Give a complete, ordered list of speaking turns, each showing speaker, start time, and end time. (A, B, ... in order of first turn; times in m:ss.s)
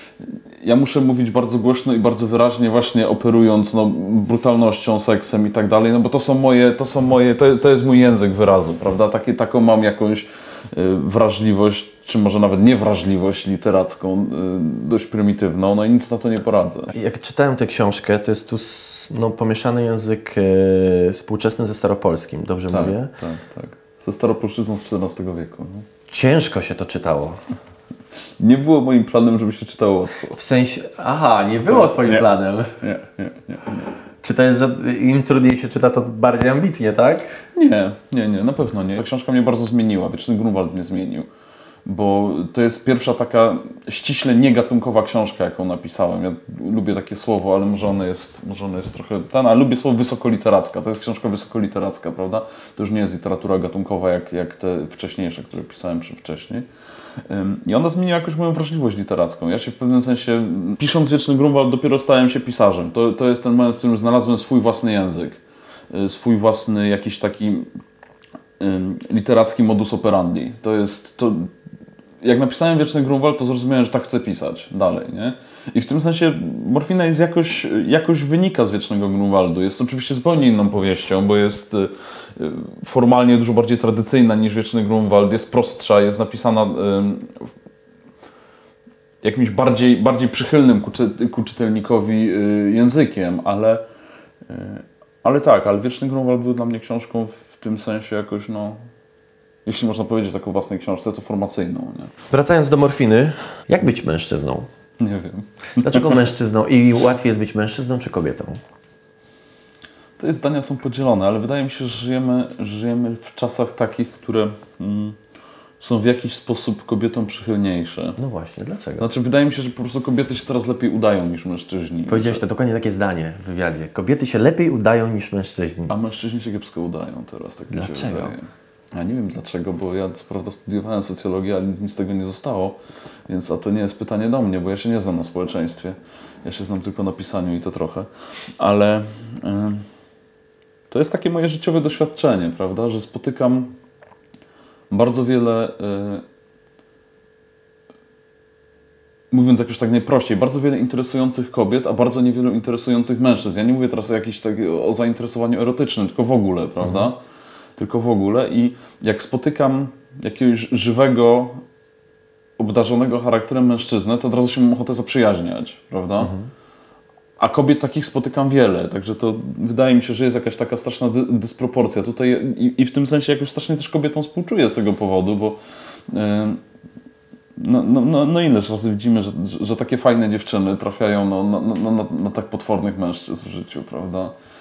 0:00.2-0:16.9 A
0:16.9-0:23.1 B
0:22.7-0:25.9 A
0:26.1-0:27.4 B
0:28.4-0:30.4 A
0:30.3-0:32.8 B
0:31.7-0:32.3 A
0:32.8-0:33.9 A
0:34.2-0:37.4 B
0:37.6-0:41.3 A
0:41.8-0:56.7 A
0:57.2-1:05.4 A
1:05.9-1:07.7 A
1:08.6-1:11.5 A
1:12.2-1:27.5 A
1:29.2-1:33.8 A
1:34.4-1:38.8 A
1:39.7-1:42.1 A
1:42.3-1:44.7 B
1:45.0-1:46.2 A
1:45.8-1:48.6 B
1:50.2-1:55.2 A
1:55.8-1:58.2 A
1:58.2-1:59.1 B
1:59.0-2:02.4 A
2:02.1-2:05.9 B
2:05.9-2:19.9 A
2:07.7-2:08.4 B
2:20.9-2:23.8 A
2:24.9-2:26.2 A
2:29.3-2:37.2 A
2:36.8-2:37.1 B
2:37.8-2:41.6 A
2:42.6-2:46.3 A
2:46.2-2:46.5 B
2:47.4-2:55.6 A
2:56.1-2:56.6 A
2:57.6-3:04.3 A